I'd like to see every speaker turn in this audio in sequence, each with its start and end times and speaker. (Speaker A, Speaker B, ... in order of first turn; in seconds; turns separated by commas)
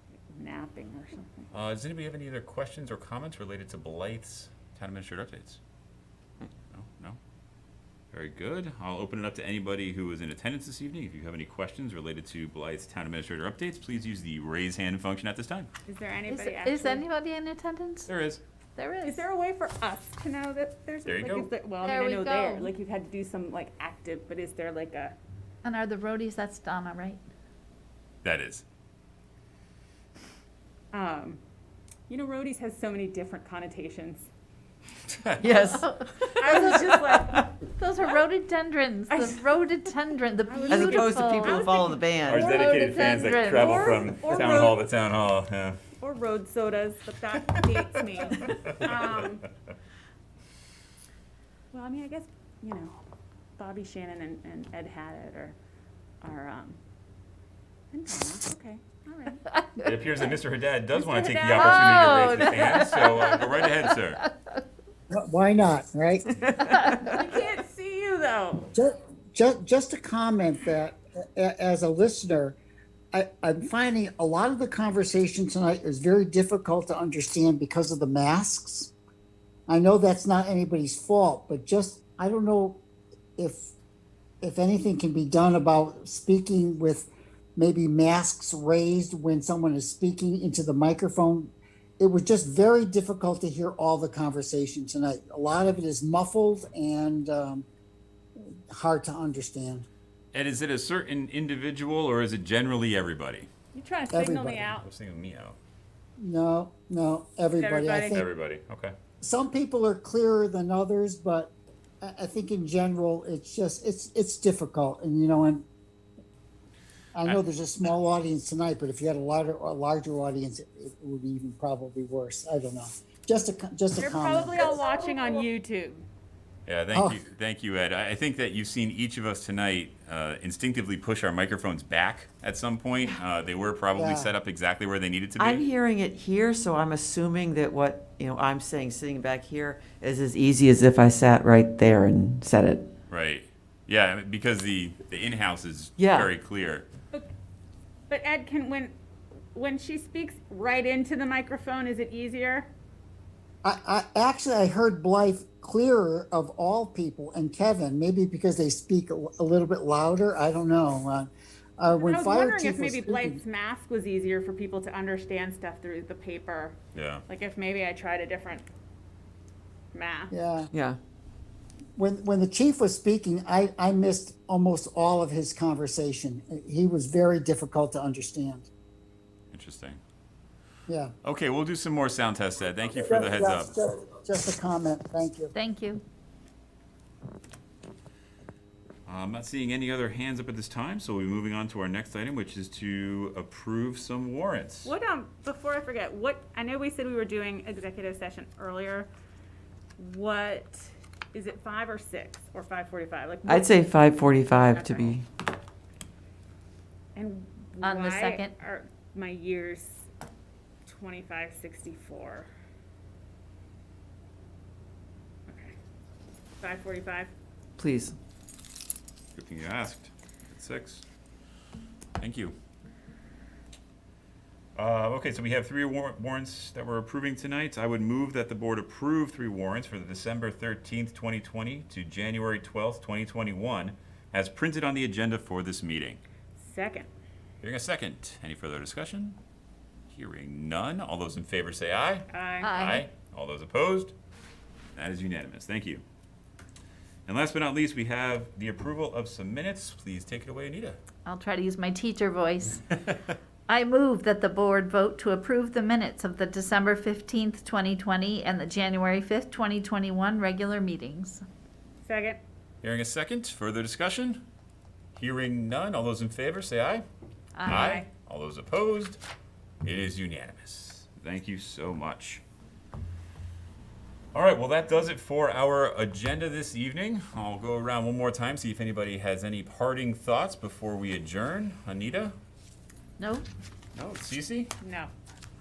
Speaker A: 0.3-1.5, Speaker B: 1.5-5.6, Speaker B: 6.7-7.2, Speaker B: 8.1-15.7, Speaker A: 15.8-17.0, Speaker C: 16.3-18.1, Speaker B: 18.1-18.4, Speaker C: 18.8-19.2, Speaker A: 19.0-25.1, Speaker B: 21.1-21.5, Speaker C: 21.8-22.7, Speaker C: 25.6-27.2, Speaker B: 28.2-28.6, Speaker A: 30.9-31.4, Speaker A: 32.1-34.3, Speaker B: 35.1-35.5, Speaker D: 35.4-37.5, Speaker C: 35.6-36.7, Speaker A: 36.4-37.5, Speaker C: 37.7-41.6, Speaker A: 39.1-39.4, Speaker A: 40.5-44.8, Speaker D: 40.7-42.5, Speaker B: 42.2-45.8, Speaker C: 42.4-44.1, Speaker A: 46.0-49.5, Speaker B: 48.6-49.1, Speaker A: 51.7-53.0, Speaker A: 53.6-55.5, Speaker A: 56.2-56.8, Speaker A: 57.9-59.4, Speaker C: 59.5-59.9, Speaker B: 59.8-64.2, Speaker A: 60.9-62.7, Speaker C: 61.5-64.6, Speaker E: 65.1-66.3, Speaker D: 66.4-67.2, Speaker C: 66.6-67.0, Speaker A: 67.0-68.7, Speaker E: 68.7-72.6, Speaker E: 73.1-78.9, Speaker E: 79.7-82.8, Speaker E: 83.4-83.7, Speaker E: 84.4-97.7, Speaker E: 98.4-99.8, Speaker B: 100.3-103.5, Speaker A: 103.7-104.8, Speaker E: 104.1-104.7, Speaker B: 104.8-105.6, Speaker E: 106.2-108.2, Speaker A: 107.6-108.2, Speaker B: 108.1-108.9, Speaker E: 109.2-115.6, Speaker E: 117.1-124.8, Speaker A: 124.0-126.0, Speaker B: 126.7-135.7, Speaker E: 126.9-127.2, Speaker E: 133.9-134.3, Speaker D: 135.4-142.8, Speaker B: 143.1-146.8, Speaker D: 146.0-146.3, Speaker A: 148.1-148.9, Speaker A: 149.5-152.7, Speaker E: 153.6-163.4, Speaker A: 162.0-166.8, Speaker B: 166.9-167.2, Speaker A: 167.3-168.7, Speaker A: 169.9-170.3, Speaker E: 170.3-170.7, Speaker D: 170.7-171.0, Speaker E: 172.0-178.7, Speaker B: 179.5-180.0, Speaker E: 180.9-181.1, Speaker B: 181.2-183.7, Speaker E: 182.9-185.5, Speaker C: 185.5-186.0, Speaker B: 189.1-194.9, Speaker A: 194.8-199.1, Speaker A: 200.0-203.8, Speaker D: 203.5-205.2, Speaker A: 204.6-205.2, Speaker A: 207.1-210.1, Speaker C: 207.8-208.5, Speaker A: 210.9-212.5, Speaker A: 215.5-215.7, Speaker A: 216.6-217.3, Speaker D: 217.8-218.1, Speaker B: 219.3-221.0, Speaker B: 222.2-222.5, Speaker B: 224.8-236.2, Speaker A: 236.6-237.1, Speaker B: 237.6-239.4, Speaker B: 240.1-244.1, Speaker A: 242.3-242.7, Speaker C: 242.6-243.1, Speaker B: 244.9-246.0, Speaker B: 247.3-251.0, Speaker C: 251.2-252.8, Speaker C: 253.7-261.4, Speaker A: 262.0-262.4, Speaker B: 262.8-264.4, Speaker B: 265.1-267.0, Speaker C: 267.6-268.0, Speaker B: 267.6-269.2, Speaker A: 267.7-268.0, Speaker B: 269.8-272.4, Speaker B: 274.3-282.3, Speaker C: 283.2-283.4, Speaker B: 283.9-284.7, Speaker A: 284.8-285.1